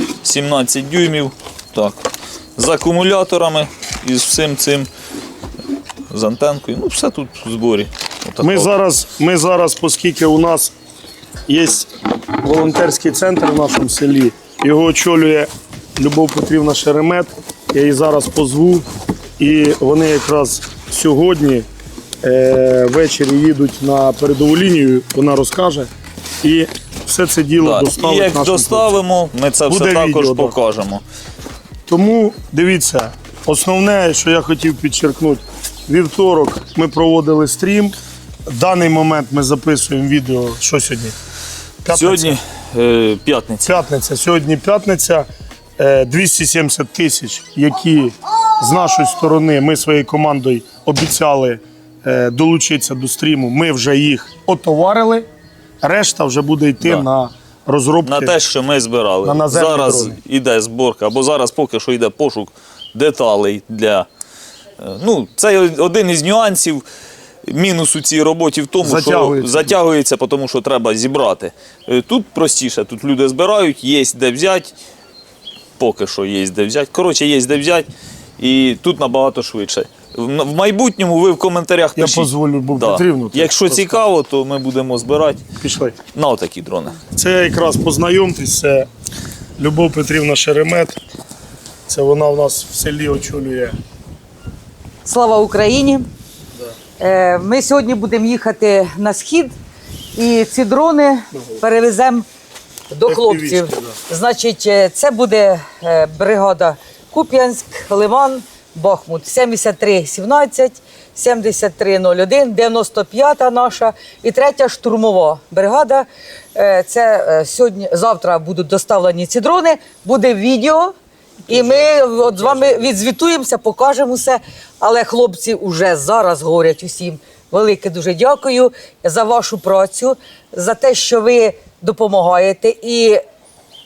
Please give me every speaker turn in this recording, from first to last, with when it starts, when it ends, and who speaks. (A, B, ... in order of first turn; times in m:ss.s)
0:00.2-0:02.0 A
0:02.6-0:04.9 A
0:06.1-0:08.7 A
0:08.4-0:10.7 B
0:11.5-0:11.9 B
0:12.4-0:18.8 B
0:19.4-0:21.7 B
0:22.2-0:25.9 B
0:26.4-0:29.0 B
0:27.6-0:31.0 A
0:29.7-0:30.6 B
0:31.9-0:41.2 B
0:41.8-0:42.4 B
0:41.9-0:43.8 A
0:43.6-0:55.3 B
0:55.8-0:58.4 B
0:56.8-0:57.0 A
0:58.0-1:04.1 A
0:59.2-1:00.2 B
1:04.8-1:06.8 A
1:07.5-1:14.7 A
1:08.8-1:09.8 B
1:15.8-1:17.9 A
1:18.4-1:25.4 A
1:22.0-1:24.0 B
1:25.6-1:26.0 B
1:26.1-1:27.0 A
1:27.1-1:28.9 B
1:29.6-1:31.0 B
1:31.9-1:33.8 B
1:35.0-1:36.1 C
1:37.0-1:39.6 C
1:40.2-1:42.3 C
1:42.9-2:00.9 C
1:43.0-1:44.0 B
2:01.5-2:13.2 C